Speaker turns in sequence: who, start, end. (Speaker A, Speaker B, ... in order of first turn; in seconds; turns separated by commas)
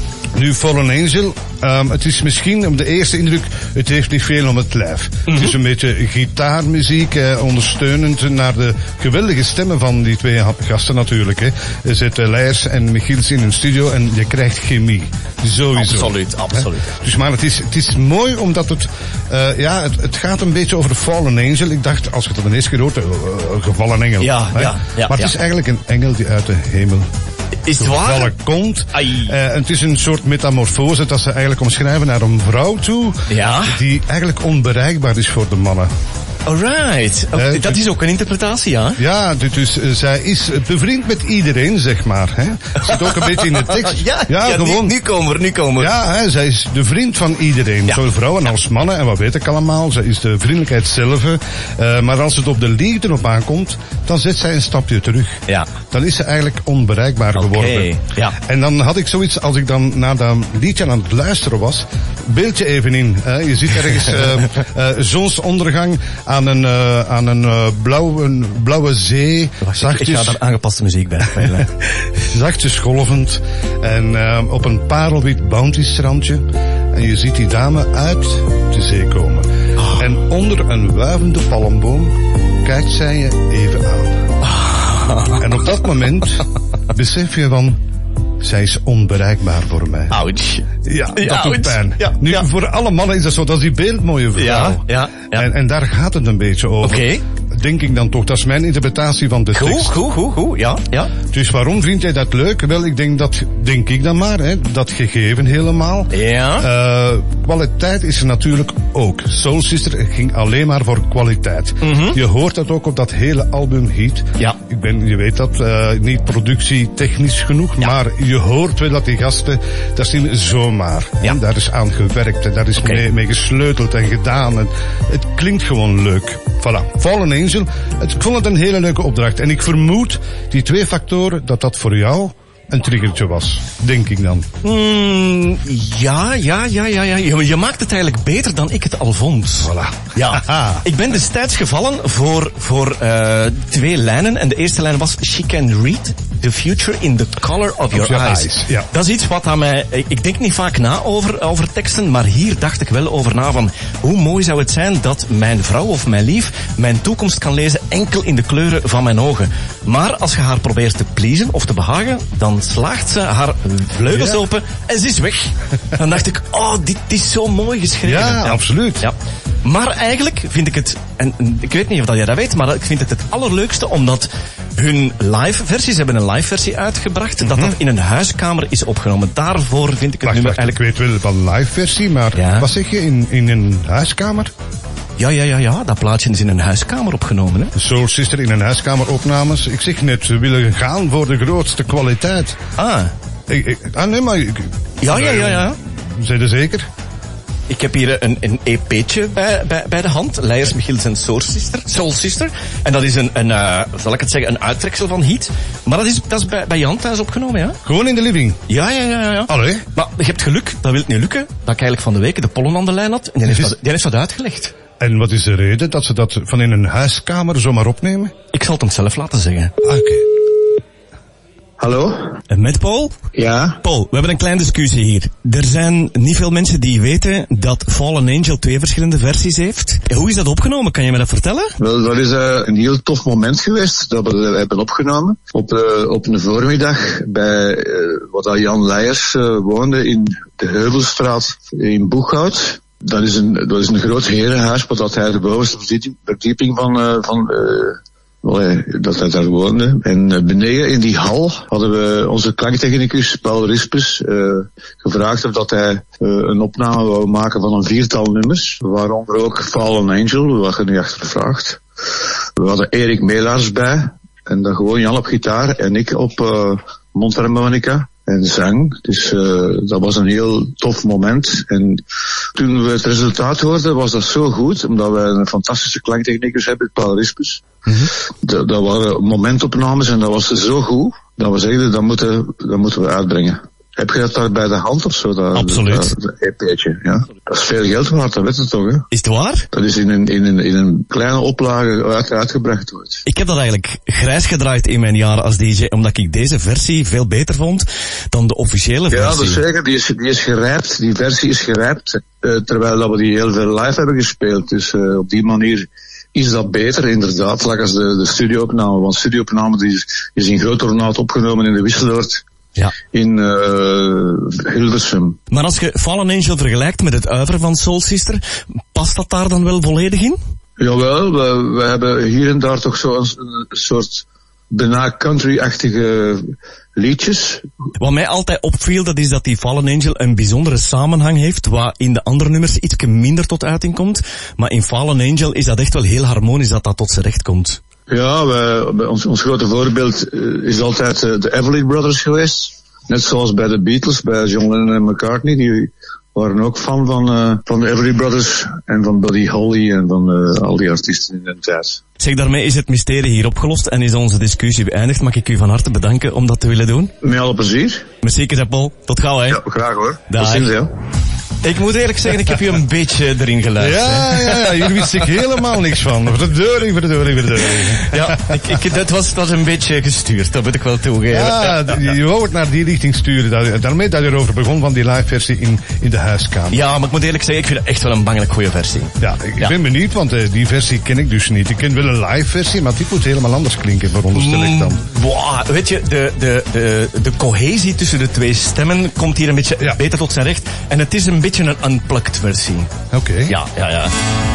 Speaker A: 0.3-27.1, Speaker B: 5.3-5.5, Speaker B: 15.8-16.9, Speaker B: 24.2-25.3, Speaker B: 27.6-28.3, Speaker A: 27.8-35.9, Speaker B: 28.9-29.3, Speaker B: 33.3-33.8, Speaker B: 36.5-39.0, Speaker A: 37.4-37.8, Speaker A: 39.0-45.0, Speaker B: 42.9-45.9, Speaker A: 45.8-70.4, Speaker B: 57.3-58.4, Speaker B: 69.6-71.7, Speaker A: 71.4-71.6, Speaker A: 72.2-84.2, Speaker B: 84.4-85.6, Speaker A: 85.4-87.8, Speaker A: 88.4-90.1, Speaker B: 90.1-92.5, Speaker A: 90.8-100.0, Speaker B: 94.4-95.5, Speaker B: 96.8-97.2, Speaker B: 99.5-101.1, Speaker A: 101.3-134.5, Speaker B: 106.1-106.7, Speaker B: 111.8-112.2, Speaker B: 122.8-123.0, Speaker B: 134.6-180.8, Speaker A: 139.6-140.8, Speaker A: 147.9-148.9, Speaker A: 164.0-164.4, Speaker A: 168.0-169.1, Speaker A: 177.5-177.8, Speaker A: 180.2-184.5, Speaker B: 182.3-182.7, Speaker B: 185.2-187.7, Speaker A: 187.8-192.6, Speaker B: 192.8-193.1, Speaker A: 193.5-196.9, Speaker B: 195.0-195.8, Speaker B: 197.7-207.8, Speaker A: 207.8-208.6, Speaker B: 208.7-214.7, Speaker A: 209.5-209.8, Speaker A: 213.5-213.8, Speaker A: 215.0-218.3, Speaker B: 218.5-219.7, Speaker A: 219.8-220.4, Speaker C: 221.8-222.4, Speaker B: 222.5-223.2, Speaker C: 223.3-223.8, Speaker B: 223.8-231.7, Speaker C: 231.8-261.8, Speaker C: 262.6-272.0, Speaker C: 272.6-277.6, Speaker C: 278.4-289.1, Speaker B: 285.5-286.1, Speaker B: 289.1-289.7, Speaker C: 289.7-293.2, Speaker B: 293.3-299.6, Speaker C: 299.1-312.4, Speaker C: 313.1-315.4, Speaker B: 315.5-318.4, Speaker B: 318.9-320.4, Speaker C: 320.8-327.7, Speaker B: 328.0-337.8, Speaker C: 338.1-352.0, Speaker B: 352.2-357.1, Speaker C: 357.2-358.1, Speaker B: 358.2-359.6, Speaker C: 359.5-360.9, Speaker B: 360.3-360.7, Speaker B: 361.6-365.3, Speaker A: 363.8-368.8, Speaker B: 368.0-372.0, Speaker A: 371.3-376.8, Speaker B: 376.7-379.8, Speaker A: 379.2-385.1, Speaker B: 384.3-392.9, Speaker A: 393.1-393.5, Speaker B: 393.5-394.1